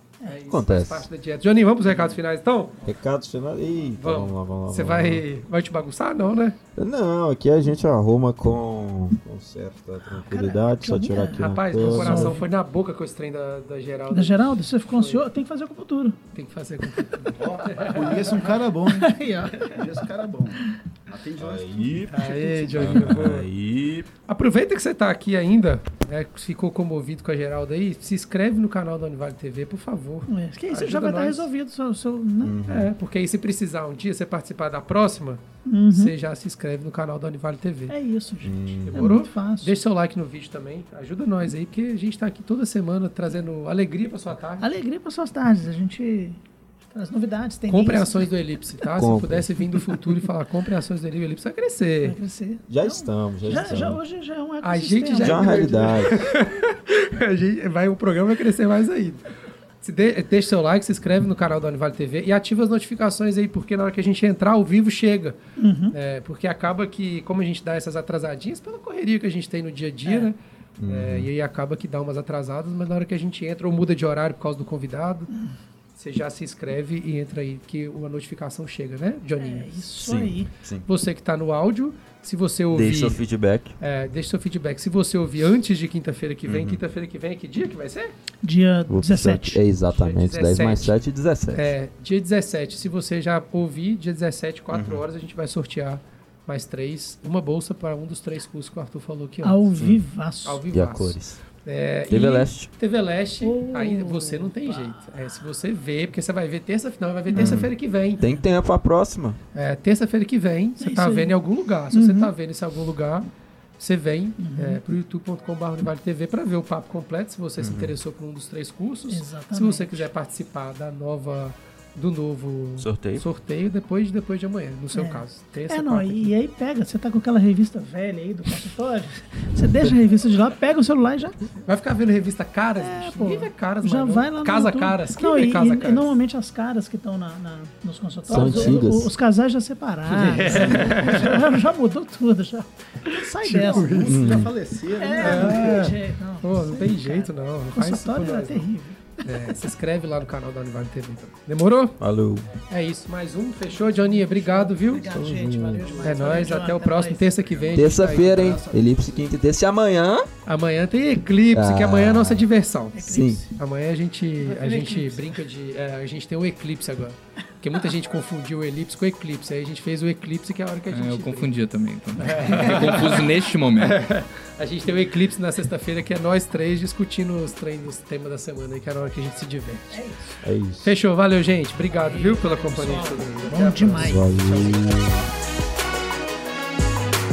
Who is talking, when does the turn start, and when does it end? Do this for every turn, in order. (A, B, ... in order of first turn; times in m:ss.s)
0:00.2-0:02.8 A
0:00.5-0:01.1 B
0:02.8-0:05.2 B
0:04.0-0:06.6 A
0:06.8-0:12.4 B
0:10.1-0:12.4 C
0:11.4-0:15.2 A
0:14.1-0:16.2 C
0:16.3-0:18.4 A
0:16.9-0:17.3 C
0:17.3-0:22.2 D
0:18.9-0:19.8 C
0:21.4-0:22.1 B
0:22.1-0:23.5 A
0:22.2-0:22.9 C
0:22.7-0:24.1 B
0:24.3-0:31.5 A
0:30.3-0:32.6 C
0:32.4-0:32.9 B
0:32.7-0:38.0 A
0:35.6-0:36.1 C
0:37.9-0:39.8 C
0:38.4-0:39.2 B
0:38.8-0:44.7 A
0:44.6-0:46.4 C
0:46.9-0:48.3 C
0:47.7-0:52.2 A
0:49.0-0:49.5 B
0:49.8-0:50.1 C
0:52.0-0:56.0 C
0:52.7-0:54.0 B
0:54.6-0:59.3 A
0:55.2-0:56.2 B
0:59.8-1:05.4 A
1:05.6-1:06.0 C
1:05.9-1:10.4 A
1:10.0-1:10.3 C
1:10.8-1:11.3 B
1:10.9-1:15.3 A
1:16.0-1:19.9 A
1:19.4-1:20.5 C
1:20.0-1:20.9 B
1:20.9-1:23.2 A
1:22.7-1:23.7 B
1:23.8-1:28.2 A
1:26.5-1:26.8 B
1:28.4-1:29.6 C
1:28.9-1:31.7 B
1:29.9-1:31.0 A
1:31.5-1:39.7 A
1:34.7-1:35.0 B
1:39.4-1:40.7 C
1:39.8-1:40.0 B
1:40.4-1:48.3 A
1:40.7-1:41.4 B
1:42.1-1:42.7 B
1:43.4-1:45.1 C
1:47.3-1:47.7 C
1:47.4-1:49.4 B
1:49.5-2:06.3 A
1:50.8-1:51.4 C
1:51.9-1:52.3 C
1:54.4-1:54.8 C
1:57.6-1:57.9 B
1:59.1-2:00.1 C
2:02.8-2:03.2 B
2:04.9-2:11.5 C
2:11.6-2:16.1 A
2:12.8-2:24.2 C
2:18.3-2:19.1 B
2:18.4-2:18.7 A
2:20.1-2:21.5 A
2:23.4-2:24.3 A
2:23.5-2:25.9 D
2:24.1-2:24.5 B
2:25.0-2:29.3 C
2:25.2-2:28.7 A
2:29.2-2:32.0 A
2:32.0-2:32.5 B
2:32.7-2:35.0 A
2:33.8-2:37.4 C
2:34.9-2:36.0 B
2:36.0-2:38.5 A
2:37.7-2:40.3 B
2:37.8-2:39.3 D
2:40.5-2:51.5 A
2:41.5-2:42.5 B
2:42.9-2:43.6 C
2:43.1-2:43.4 B
2:44.4-2:45.4 C
2:50.9-2:54.0 E
2:52.2-3:00.0 A
2:59.9-3:00.4 C
3:00.4-3:00.9 B
3:00.8-3:04.3 A
3:01.8-3:05.1 C
3:03.8-3:05.3 B